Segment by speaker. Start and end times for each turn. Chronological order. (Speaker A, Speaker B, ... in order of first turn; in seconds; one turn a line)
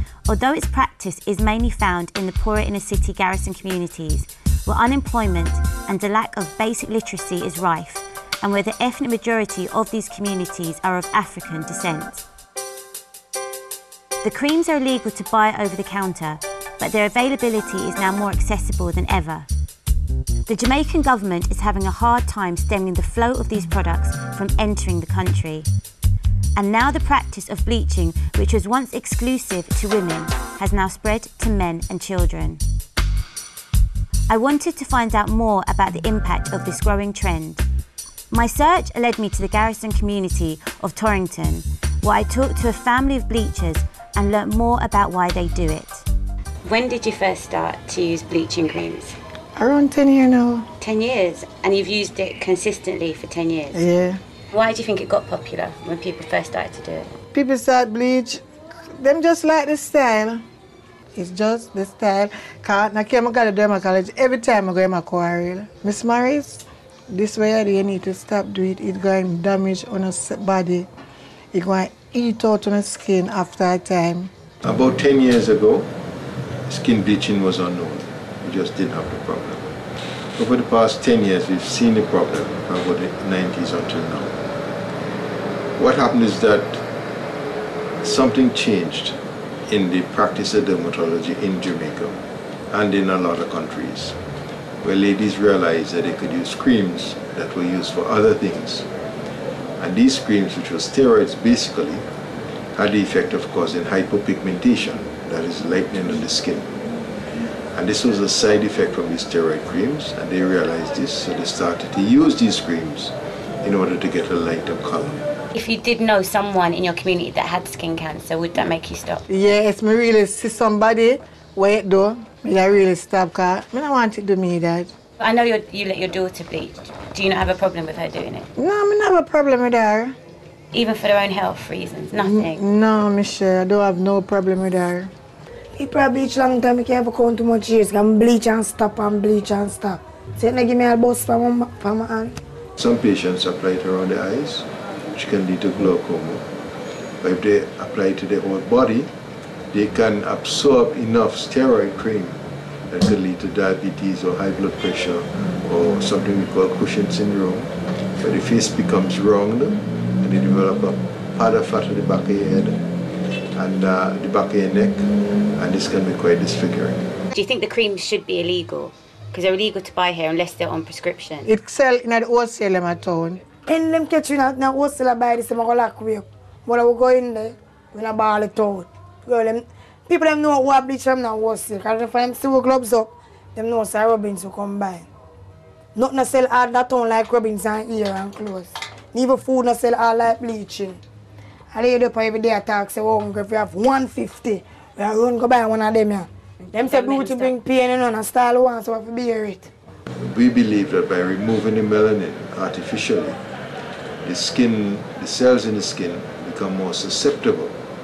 Speaker A: 0.3-12.2
Speaker A: 14.2-19.5
Speaker A: 20.5-25.7
Speaker A: 26.6-32.6
Speaker A: 34.3-37.6
Speaker A: 38.3-46.0
Speaker A: 46.6-49.2
Speaker B: 49.6-50.7
Speaker A: 50.8-53.9
Speaker B: 53.7-54.2
Speaker A: 54.5-57.1
Speaker B: 57.3-58.4
Speaker B: 59.0-60.4
Speaker B: 61.2-70.9
Speaker B: 71.5-74.3
Speaker C: 74.6-75.9
Speaker C: 76.7-79.7
Speaker C: 80.4-84.4
Speaker C: 85.8-86.8
Speaker C: 88.0-89.2
Speaker C: 89.7-94.2
Speaker C: 94.8-98.9
Speaker C: 99.8-102.1
Speaker C: 102.8-106.8
Speaker C: 107.8-115.2
Speaker A: 115.5-119.2
Speaker B: 119.3-124.9
Speaker A: 125.2-128.5
Speaker B: 128.6-130.2
Speaker A: 130.7-132.6
Speaker B: 132.2-135.1
Speaker D: 135.8-142.3
Speaker C: 142.8-146.4
Speaker C: 147.2-149.1
Speaker C: 149.7-162.8
Speaker C: 163.6-167.1
Speaker A: 167.3-171.5
Speaker B: 171.4-173.4
Speaker D: 173.7-185.1
Speaker D: 186.0-191.0
Speaker D: 191.7-199.7
Speaker A: 196.6-197.6
Speaker C: 200.2-203.4
Speaker C: 204.2-207.8